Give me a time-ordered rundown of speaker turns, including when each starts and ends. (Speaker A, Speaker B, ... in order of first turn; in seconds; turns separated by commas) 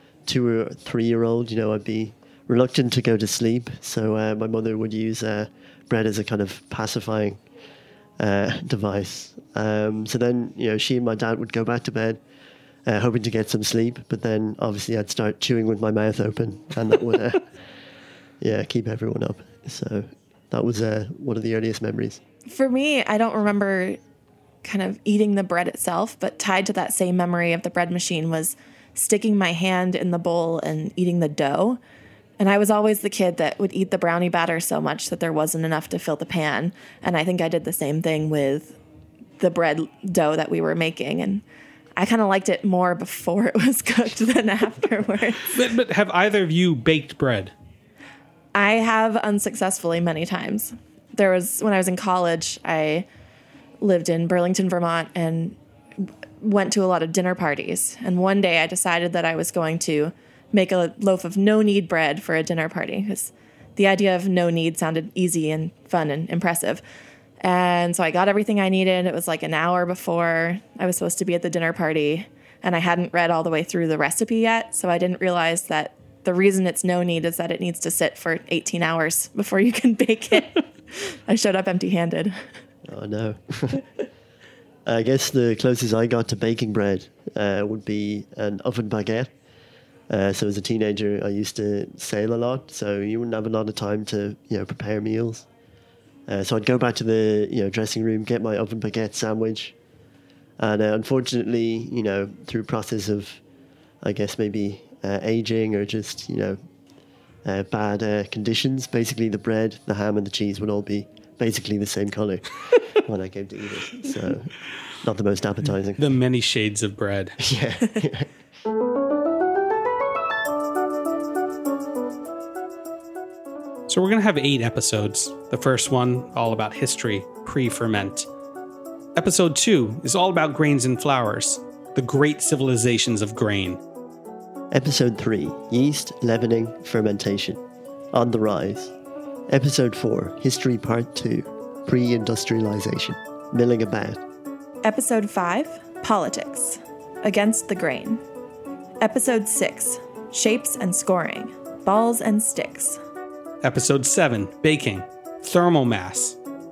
Speaker A: 0.2-7.4, Speaker A: 8.2-12.2, Speaker A: 12.9-17.5, Speaker A: 18.4-22.2, Speaker B: 22.5-24.0, Speaker B: 24.6-31.8, Speaker B: 32.4-38.8, Speaker B: 39.4-41.4, Speaker B: 42.0-45.5, Speaker C: 45.5-47.5, Speaker B: 48.5-53.1, Speaker B: 53.8-66.8, Speaker B: 67.4-82.5, Speaker A: 82.9-83.8, Speaker A: 84.9-89.3, Speaker A: 90.1-95.5, Speaker A: 96.3-99.8, Speaker A: 100.6-103.4, Speaker A: 104.0-106.6, Speaker A: 107.5-116.0, Speaker C: 116.0-117.3, Speaker A: 117.4-118.3, Speaker C: 123.9-128.3, Speaker C: 129.2-133.8, Speaker A: 134.7-137.6, Speaker A: 138.1-138.9, Speaker A: 139.5-144.2, Speaker B: 144.8-148.2, Speaker B: 149.0-153.0, Speaker C: 153.6-156.4